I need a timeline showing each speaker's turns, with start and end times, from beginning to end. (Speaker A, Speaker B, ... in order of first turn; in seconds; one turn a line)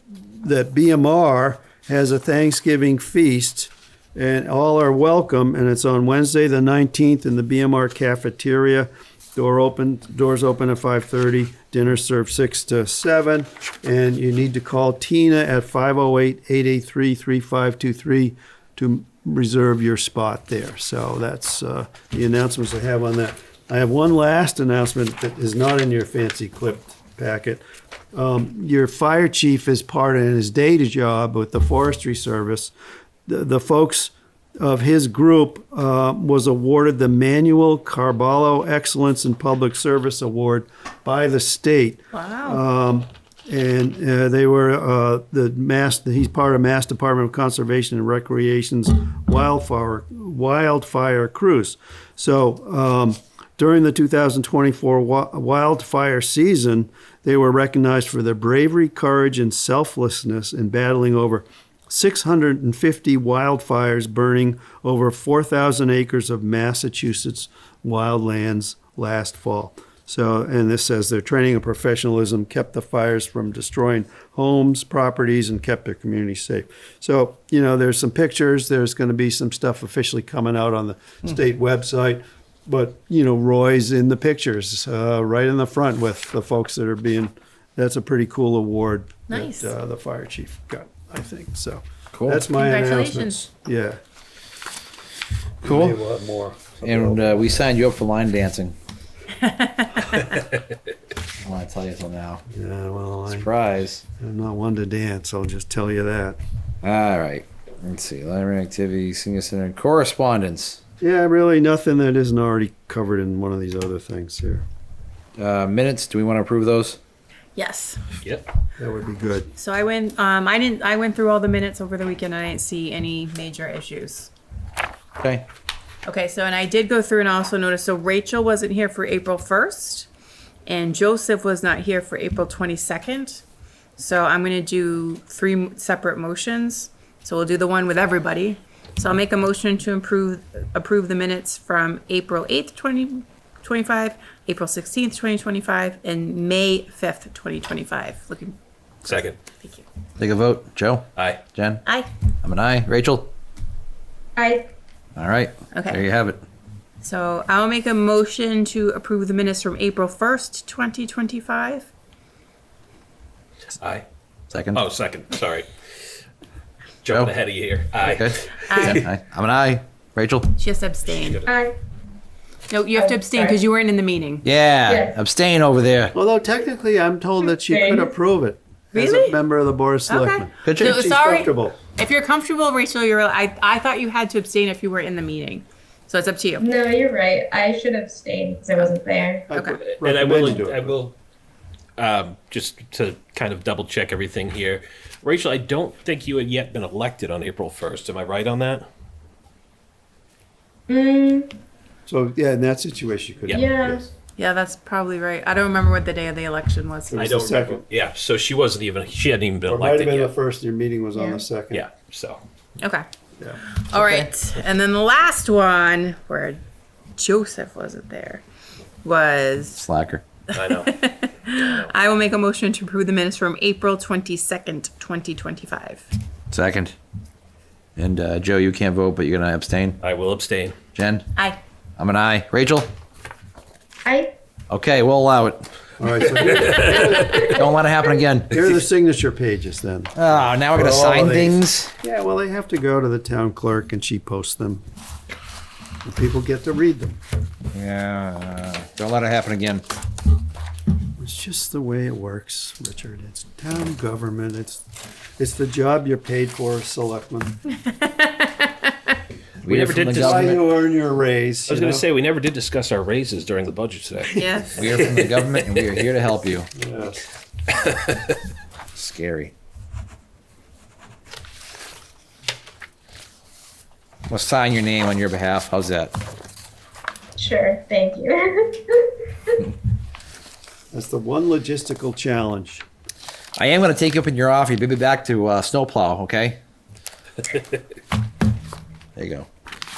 Speaker A: 0.4-32.7
Speaker A: 33.2-94.0
Speaker B: 42.1-42.6
Speaker B: 89.3-89.7
Speaker C: 92.1-92.5
Speaker B: 92.5-93.4
Speaker A: 95.6-97.6
Speaker C: 95.6-96.0
Speaker C: 96.8-98.8
Speaker B: 99.4-100.2
Speaker C: 101.4-102.4
Speaker A: 102.5-103.5
Speaker C: 103.3-104.0
Speaker A: 104.2-106.4
Speaker C: 106.8-110.8
Speaker A: 111.0-114.6
Speaker C: 115.4-117.0
Speaker B: 117.5-118.0
Speaker D: 118.2-118.5
Speaker A: 118.8-119.5
Speaker B: 119.5-124.3
Speaker C: 125.2-125.5
Speaker B: 126.0-130.1
Speaker B: 130.7-133.4
Speaker B: 134.0-149.8
Speaker D: 149.1-149.4
Speaker C: 150.2-151.8
Speaker D: 151.2-151.4
Speaker C: 152.4-153.3
Speaker E: 154.4-154.7
Speaker C: 155.2-156.4
Speaker B: 155.7-156.0
Speaker B: 157.0-161.9
Speaker D: 163.8-164.1
Speaker C: 164.5-164.8
Speaker D: 164.7-165.7
Speaker D: 167.0-169.0
Speaker C: 168.0-170.5
Speaker B: 168.7-169.0
Speaker B: 170.6-171.4
Speaker D: 171.1-171.5
Speaker E: 171.4-171.8
Speaker B: 172.7-174.4
Speaker E: 172.9-173.6
Speaker C: 174.4-176.1
Speaker E: 174.9-175.2
Speaker A: 176.1-181.8
Speaker E: 177.7-178.1
Speaker B: 178.9-179.4
Speaker B: 180.1-186.7
Speaker C: 180.6-181.0
Speaker E: 186.6-189.4
Speaker A: 189.5-191.0
Speaker B: 189.5-189.8
Speaker D: 189.8-191.1
Speaker D: 192.0-198.9
Speaker E: 200.9-201.5
Speaker A: 202.1-204.1
Speaker E: 203.5-204.1
Speaker B: 204.4-207.4
Speaker A: 207.1-207.9
Speaker D: 207.2-210.4
Speaker A: 209.7-211.9
Speaker E: 211.2-211.4
Speaker D: 211.7-212.4
Speaker B: 212.8-213.1
Speaker B: 213.9-216.6
Speaker C: 213.9-214.3
Speaker B: 217.2-218.4
Speaker B: 219.0-219.8
Speaker C: 219.8-220.2
Speaker D: 220.5-221.9
Speaker B: 220.6-226.1
Speaker C: 226.5-226.9
Speaker C: 228.0-230.0
Speaker D: 230.0-230.8
Speaker C: 230.9-231.3
Speaker C: 232.0-232.9
Speaker E: 234.1-234.3
Speaker C: 234.7-235.7
Speaker A: 236.0-237.6
Speaker D: 236.5-237.3
Speaker C: 237.1-238.7
Speaker A: 238.5-244.8
Speaker C: 240.2-241.9
Speaker A: 246.1-247.2
Speaker C: 247.7-249.8
Speaker A: 251.2-254.8
Speaker A: 255.4-257.6
Speaker B: 257.9-258.9
Speaker C: 259.6-260.6
Speaker D: 259.6-260.6
Speaker A: 260.2-262.1
Speaker D: 261.7-264.4
Speaker B: 264.3-264.9
Speaker C: 264.8-266.7
Speaker A: 266.8-267.2
Speaker D: 267.7-268.2
Speaker C: 268.9-269.5
Speaker C: 274.3-276.1
Speaker E: 277.4-279.6
Speaker A: 280.9-282.9
Speaker C: 283.6-286.6
Speaker C: 289.2-289.5